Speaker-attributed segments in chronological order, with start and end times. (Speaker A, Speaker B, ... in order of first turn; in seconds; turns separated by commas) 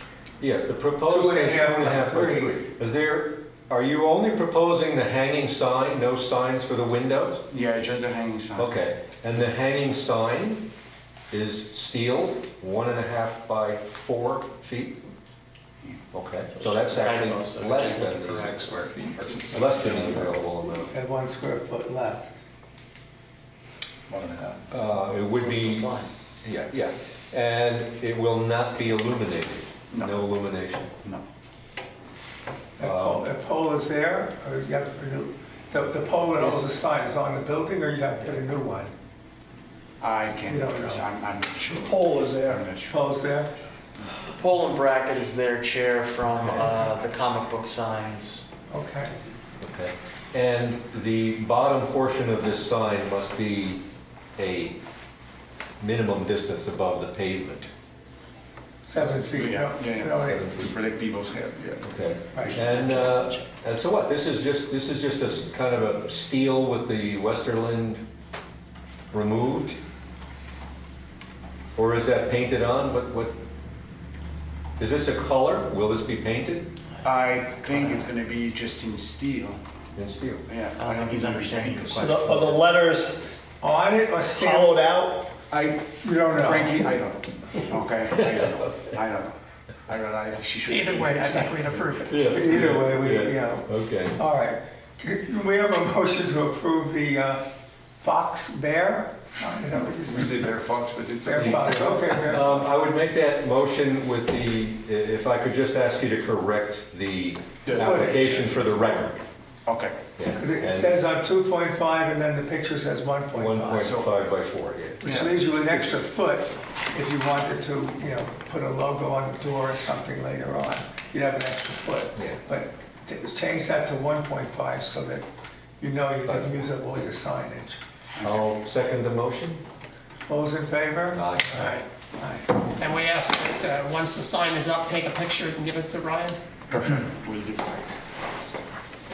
Speaker A: 0.4-7.4, Speaker B: 1.1-2.6, Speaker C: 7.5-8.8, Speaker A: 8.6-10.7, Speaker A: 11.3-15.0, Speaker A: 16.1-18.9, Speaker D: 16.5-19.0, Speaker C: 18.5-20.3, Speaker A: 19.5-20.9, Speaker B: 20.9-22.4, Speaker C: 24.1-24.6, Speaker A: 24.7-25.9, Speaker D: 25.3-26.1, Speaker A: 26.4-30.9, Speaker B: 32.8-38.9, Speaker A: 32.8-33.2, Speaker A: 36.3-36.7, Speaker C: 40.0-43.0, Speaker B: 40.5-41.1, Speaker E: 41.8-42.6, Speaker B: 42.9-43.5, Speaker D: 44.2-48.5, Speaker B: 46.5-46.9, Speaker B: 48.7-49.1, Speaker A: 49.6-53.9, Speaker A: 54.4-54.8, Speaker A: 55.8-57.7, Speaker B: 58.9-60.5, Speaker C: 59.0-61.8, Speaker A: 60.2-60.7, Speaker A: 61.8-68.0, Speaker B: 62.3-62.6, Speaker D: 62.5-63.4, Speaker A: 69.1-69.8, Speaker A: 71.8-73.4, Speaker A: 74.8-76.7, Speaker C: 77.0-79.6, Speaker A: 79.9-80.4, Speaker C: 80.5-82.5, Speaker D: 80.8-82.6, Speaker E: 82.0-83.3, Speaker B: 83.6-84.8, Speaker E: 84.3-85.3, Speaker C: 85.5-91.5, Speaker B: 86.0-86.8, Speaker F: 90.7-92.3, Speaker A: 92.1-94.2, Speaker B: 92.2-97.4, Speaker B: 98.0-100.4, Speaker C: 99.9-102.2, Speaker B: 101.2-102.7, Speaker A: 101.3-109.2, Speaker C: 107.6-108.6, Speaker B: 107.7-108.2, Speaker C: 109.7-110.0, Speaker A: 110.2-111.0, Speaker B: 110.3-113.9, Speaker A: 113.3-115.2, Speaker C: 113.7-114.1, Speaker B: 115.0-125.2, Speaker C: 115.0-116.0, Speaker B: 125.8-127.8, Speaker A: 126.2-126.8, Speaker C: 128.2-128.4, Speaker A: 128.2-129.6, Speaker B: 130.3-132.5, Speaker A: 131.1-131.8, Speaker F: 131.5-131.8, Speaker F: 132.7-136.4, Speaker C: 136.7-137.9